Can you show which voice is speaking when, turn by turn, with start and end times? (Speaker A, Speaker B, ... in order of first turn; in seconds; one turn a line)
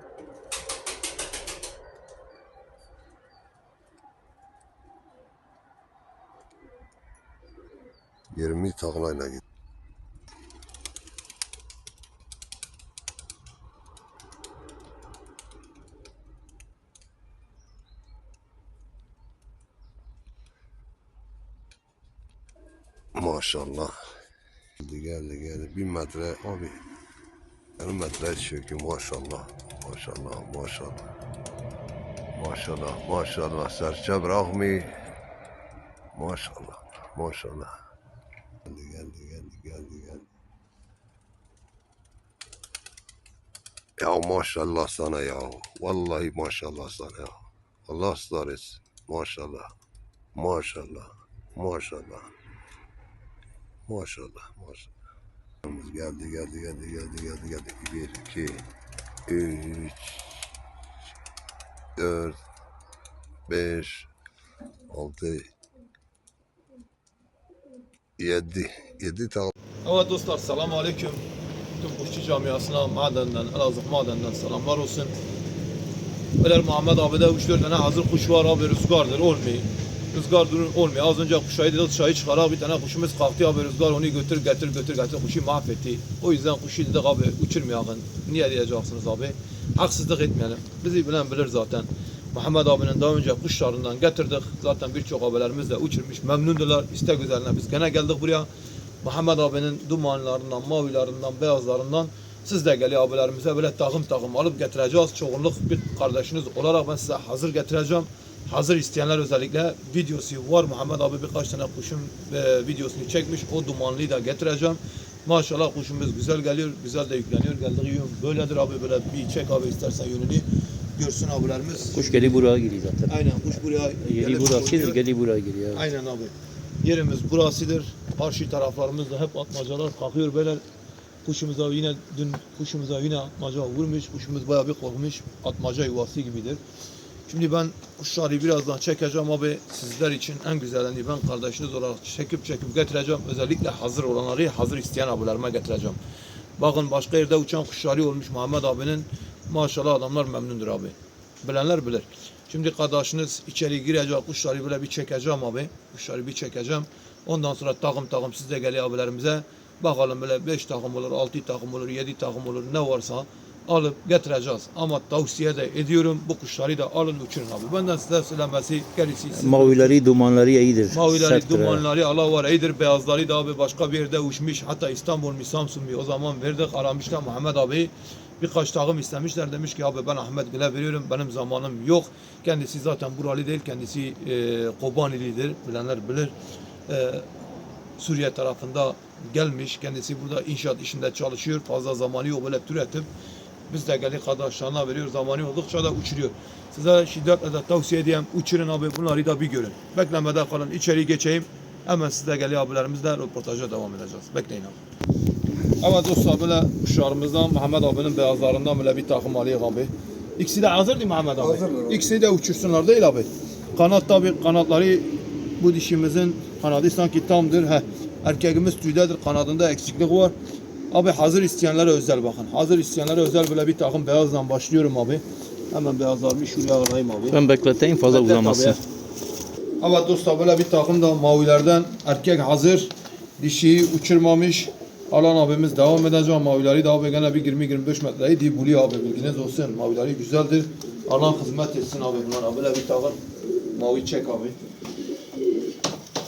Speaker A: 8.3-9.4
Speaker A: 23.2-23.9
Speaker A: 24.8-26.8
Speaker A: 27.8-31.1
Speaker A: 32.4-34.9
Speaker A: 36.1-37.7
Speaker A: 38.7-40.3
Speaker A: 44.0-49.7
Speaker A: 50.4-52.3
Speaker A: 53.9-54.9
Speaker A: 55.6-58.7
Speaker A: 59.3-60.4
Speaker A: 62.0-62.4
Speaker A: 63.5-64.1
Speaker A: 64.9-65.4
Speaker A: 68.2-69.5
Speaker B: 69.8-71.2
Speaker B: 71.8-75.1
Speaker B: 76.4-98.5
Speaker B: 99.0-122.4
Speaker C: 121.9-123.1
Speaker B: 123.1-125.0
Speaker C: 124.0-125.8
Speaker B: 125.7-130.6
Speaker B: 131.2-136.6
Speaker B: 137.3-146.0
Speaker B: 146.6-170.0
Speaker C: 169.3-171.8
Speaker B: 170.9-186.3
Speaker B: 186.9-187.3
Speaker B: 188.0-193.1
Speaker B: 193.7-204.8
Speaker B: 205.8-220.3
Speaker B: 220.9-227.4
Speaker C: 227.3-228.8
Speaker B: 228.1-228.8
Speaker B: 229.8-243.2
Speaker B: 243.7-244.6